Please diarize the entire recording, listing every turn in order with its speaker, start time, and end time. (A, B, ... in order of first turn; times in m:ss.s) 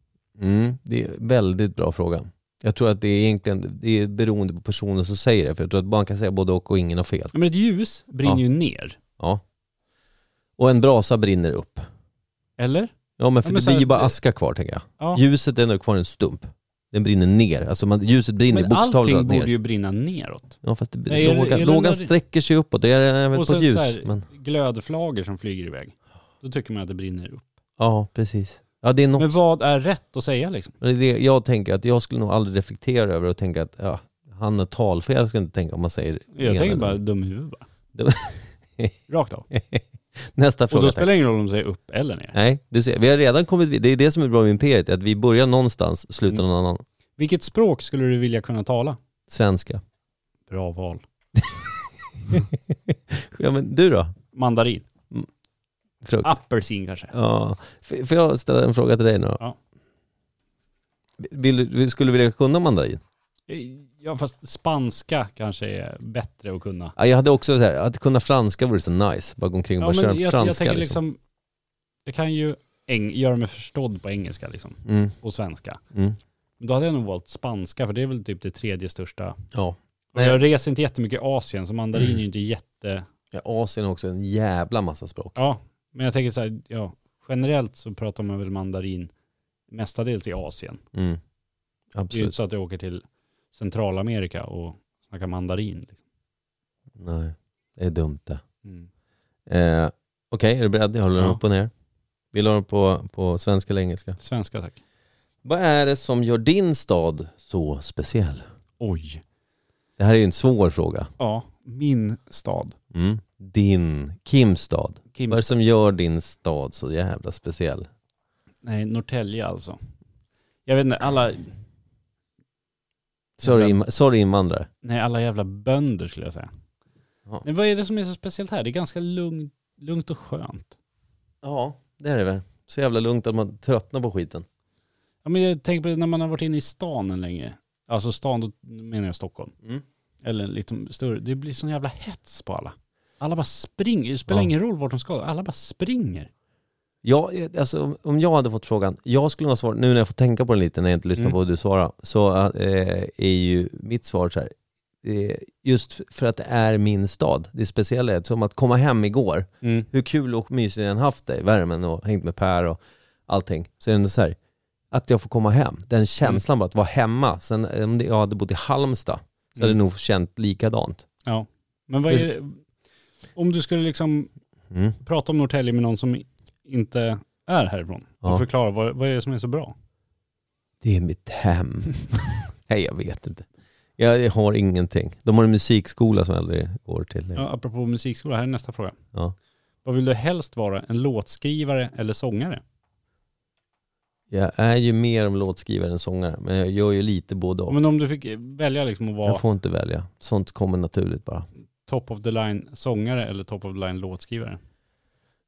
0:00.4-0:07.3 A
0:07.3-0:09.0 B
0:10.6-0:11.9 A
0:12.6-0:12.9 B
0:13.2-0:19.5 A
0:13.4-0:14.1 B
0:18.5-0:22.1 B
0:20.6-0:24.2 A
0:23.3-0:27.5 B
0:27.8-0:29.4 A
0:29.2-0:30.7 B
0:30.8-0:37.0 A
0:36.4-0:37.6 B
0:37.9-0:38.9 A
0:39.1-0:39.5 B
0:39.5-0:41.1 A
0:40.7-0:42.4 B
0:42.3-0:46.8 A
0:47.2-0:49.0 B
0:49.3-0:49.8 A
0:50.5-0:51.0 B
0:52.3-0:54.1 A
0:54.3-0:54.8 B
0:56.0-0:56.3 A
0:56.2-0:57.1 B
0:57.1-0:59.4 A
1:01.2-1:03.0 A
1:03.5-1:06.9 B
1:07.0-1:11.0 A
1:09.8-1:11.2 B
1:12.0-1:15.8 B
1:14.8-1:15.1 A
1:16.6-1:19.4 B
1:19.5-1:20.4 A
1:20.1-1:23.0 B
1:23.3-1:25.4 A
1:25.4-1:29.1 B
1:29.7-1:30.8 B
1:30.9-1:31.2 A
1:31.9-1:32.3 A
1:32.1-1:36.0 B
1:37.0-1:38.4 A
1:39.5-1:41.7 A
1:42.3-1:44.2 A
1:44.2-1:44.8 B
1:45.4-1:48.5 A
1:48.8-1:49.2 B
1:50.0-1:51.1 A
1:51.2-1:52.8 B
1:52.9-1:57.9 A
1:55.1-1:55.5 B
1:58.6-1:59.8 B
2:00.6-2:01.5 B
2:03.4-2:03.8 B
2:03.4-2:04.7 A
2:04.8-2:06.5 B
2:07.4-2:10.8 B
2:11.4-2:14.4 A
2:15.2-2:19.5 B
2:20.2-2:26.3 B
2:27.0-2:44.4 A
2:39.6-2:39.9 B
2:44.9-2:51.0 A
2:51.2-2:52.6 B
2:53.4-2:54.3 B
2:54.7-2:55.0 A
2:55.0-2:59.7 B
3:00.8-3:07.4 A
3:07.4-3:09.0 B
3:09.8-3:12.6 B
3:14.3-3:17.8 A
3:17.7-3:19.4 B
3:19.2-3:21.5 A
3:21.9-3:24.6 B